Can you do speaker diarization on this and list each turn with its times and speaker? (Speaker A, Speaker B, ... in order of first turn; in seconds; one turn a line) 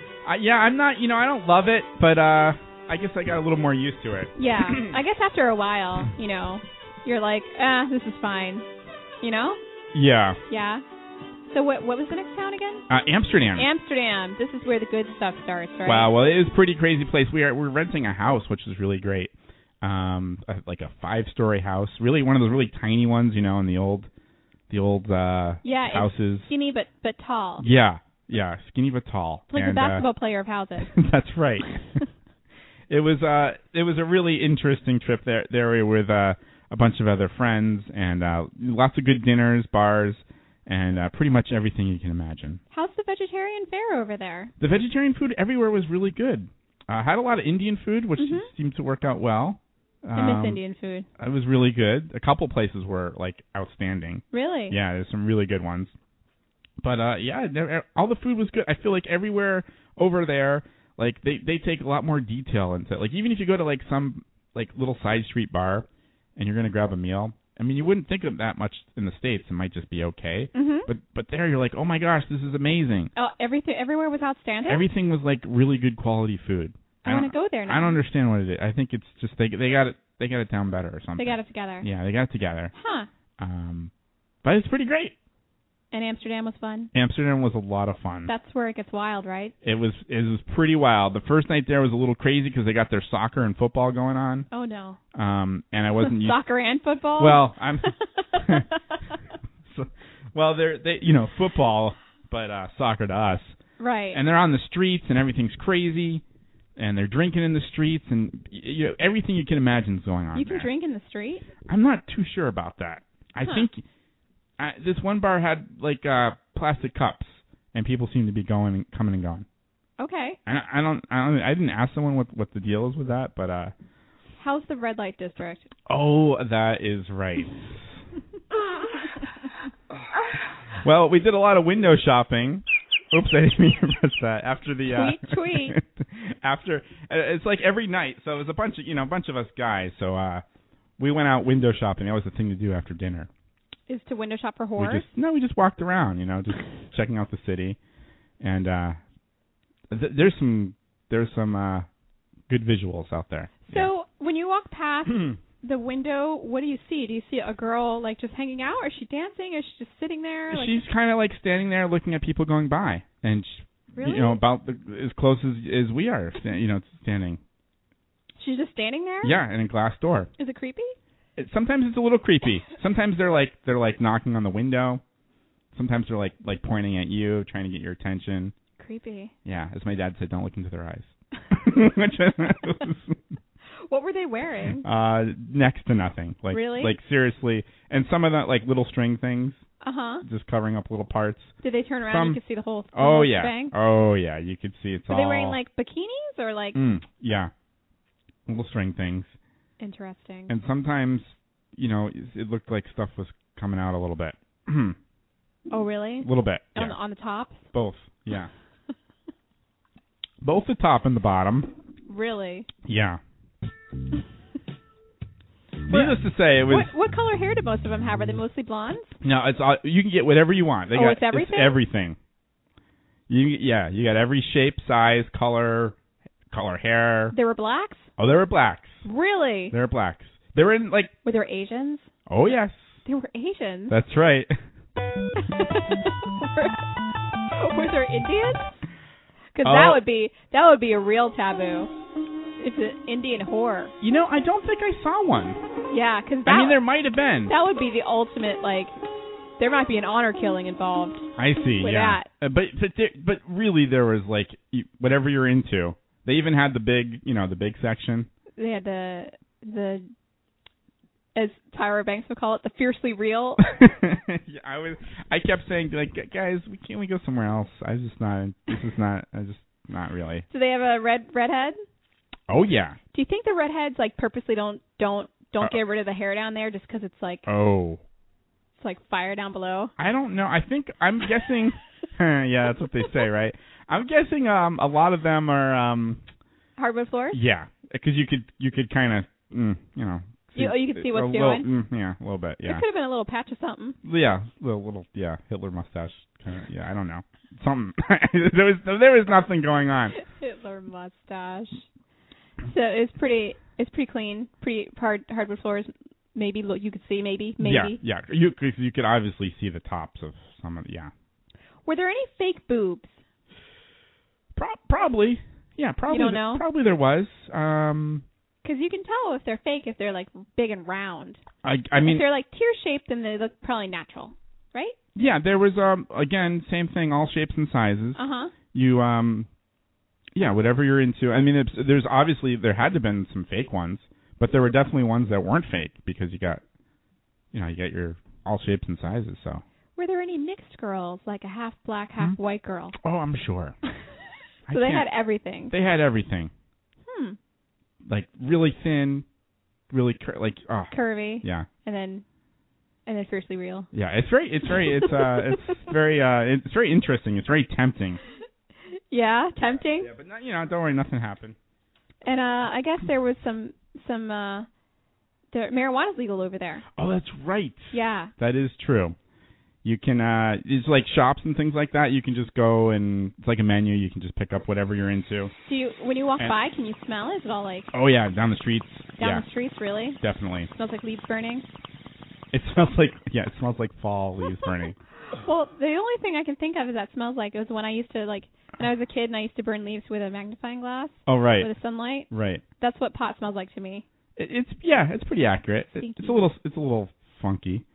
Speaker A: 0.2-5.0
Speaker B: 4.3-8.7
Speaker B: 9.2-9.6
Speaker A: 9.9-10.4
Speaker B: 10.5-10.8
Speaker B: 11.5-12.8
Speaker A: 12.9-13.7
Speaker B: 13.5-16.1
Speaker A: 15.8-24.1
Speaker A: 24.7-26.5
Speaker B: 25.6-27.7
Speaker A: 27.6-30.1
Speaker B: 29.5-30.9
Speaker A: 30.8-31.8
Speaker A: 32.9-42.6
Speaker B: 42.7-44.5
Speaker A: 44.6-50.6
Speaker B: 48.2-48.5
Speaker B: 50.1-51.1
Speaker A: 51.2-55.9
Speaker B: 54.3-54.8
Speaker A: 56.8-73.1
Speaker B: 70.5-70.9
Speaker B: 73.2-74.9
Speaker A: 74.7-82.7
Speaker B: 77.0-78.0
Speaker B: 81.2-81.9
Speaker B: 82.7-83.1
Speaker A: 83.4-83.9
Speaker A: 84.4-85.1
Speaker B: 85.9-86.9
Speaker A: 86.9-88.3
Speaker B: 88.3-89.5
Speaker A: 89.6-94.5
Speaker B: 94.5-95.0
Speaker A: 95.1-96.4
Speaker B: 96.0-99.1
Speaker A: 97.2-98.7
Speaker A: 99.6-103.6
Speaker B: 103.8-104.2
Speaker A: 104.1-106.2
Speaker A: 106.8-110.7
Speaker B: 110.3-111.4
Speaker A: 111.7-113.8
Speaker B: 113.4-113.7
Speaker A: 114.6-119.5
Speaker B: 120.0-120.4
Speaker A: 120.5-123.7
Speaker B: 124.4-125.7
Speaker A: 125.9-128.0
Speaker A: 130.8-140.4
Speaker B: 134.9-135.8
Speaker A: 141.0-143.3
Speaker B: 143.9-145.1
Speaker A: 144.8-147.8
Speaker A: 148.4-149.0
Speaker A: 149.9-151.9
Speaker A: 152.5-153.9
Speaker B: 153.6-160.8
Speaker A: 155.1-155.4
Speaker A: 160.5-167.4
Speaker B: 163.9-164.4
Speaker B: 168.4-169.4
Speaker A: 169.2-170.3
Speaker B: 170.4-170.9
Speaker A: 171.3-175.0
Speaker A: 175.7-178.5
Speaker B: 178.8-179.3
Speaker A: 179.4-183.2
Speaker B: 183.9-184.8
Speaker A: 184.8-189.6
Speaker B: 186.5-186.9
Speaker B: 189.8-190.2
Speaker A: 190.2-191.5
Speaker B: 191.6-193.7
Speaker A: 192.1-192.4
Speaker A: 192.9-195.6
Speaker B: 195.1-196.8
Speaker A: 196.7-197.5
Speaker A: 198.5-199.3
Speaker B: 199.8-200.5
Speaker A: 200.5-205.0
Speaker B: 205.7-207.7
Speaker A: 206.2-207.0
Speaker A: 207.7-208.5
Speaker A: 210.4-211.7
Speaker B: 212.1-212.7
Speaker A: 212.8-213.2
Speaker A: 215.9-216.9
Speaker B: 215.9-219.2
Speaker A: 219.2-222.2
Speaker B: 220.9-221.8
Speaker A: 223.3-226.0
Speaker A: 226.5-227.3
Speaker B: 227.3-228.1
Speaker A: 228.2-229.0
Speaker B: 229.0-229.7
Speaker A: 229.7-231.1
Speaker B: 231.2-232.1
Speaker A: 232.3-233.0
Speaker B: 233.0-234.0
Speaker A: 233.9-234.6
Speaker B: 235.4-236.8
Speaker B: 237.6-238.7
Speaker B: 239.5-241.9
Speaker A: 239.6-240.0
Speaker B: 242.6-243.9
Speaker A: 244.0-245.6
Speaker B: 245.9-246.8
Speaker A: 246.4-247.5
Speaker B: 247.5-249.0
Speaker B: 249.6-251.3
Speaker A: 251.4-258.3
Speaker B: 251.8-252.3
Speaker B: 258.6-260.1
Speaker B: 261.3-263.6
Speaker A: 263.6-270.4
Speaker B: 270.5-271.8
Speaker A: 272.5-273.0
Speaker B: 273.1-277.4
Speaker A: 277.4-278.0
Speaker B: 278.8-279.9
Speaker A: 280.0-286.2
Speaker B: 286.8-287.4
Speaker A: 287.3-292.8
Speaker B: 290.6-291.6
Speaker B: 292.6-294.0
Speaker A: 294.0-300.1
Speaker B: 300.2-301.9
Speaker B: 302.6-308.0
Speaker A: 307.6-311.1
Speaker B: 311.9-313.2
Speaker A: 314.5-318.2
Speaker B: 316.1-316.6
Speaker B: 318.6-321.4
Speaker A: 321.6-322.2
Speaker B: 322.0-325.0
Speaker A: 325.1-328.2
Speaker B: 328.1-328.5
Speaker A: 328.7-329.5
Speaker A: 330.3-336.6
Speaker A: 337.5-339.6
Speaker B: 339.9-342.9
Speaker A: 343.0-343.8
Speaker A: 344.7-345.1
Speaker B: 344.7-345.7
Speaker A: 345.7-346.5
Speaker B: 347.1-347.4
Speaker A: 348.0-349.2
Speaker A: 349.9-351.7
Speaker B: 350.9-352.2
Speaker B: 353.1-353.9
Speaker A: 353.9-358.2
Speaker B: 355.0-355.4
Speaker B: 359.1-360.1
Speaker A: 359.9-361.6
Speaker B: 362.2-364.7
Speaker B: 365.5-366.9
Speaker A: 366.9-369.1
Speaker B: 367.9-368.3
Speaker A: 369.8-375.5
Speaker B: 375.6-377.9
Speaker A: 377.9-379.4
Speaker B: 379.2-380.2
Speaker A: 380.2-380.7
Speaker B: 380.7-381.7
Speaker A: 382.5-384.9
Speaker B: 385.3-394.1
Speaker A: 391.2-391.7
Speaker A: 392.3-392.6
Speaker A: 394.4-397.8
Speaker B: 396.0-396.5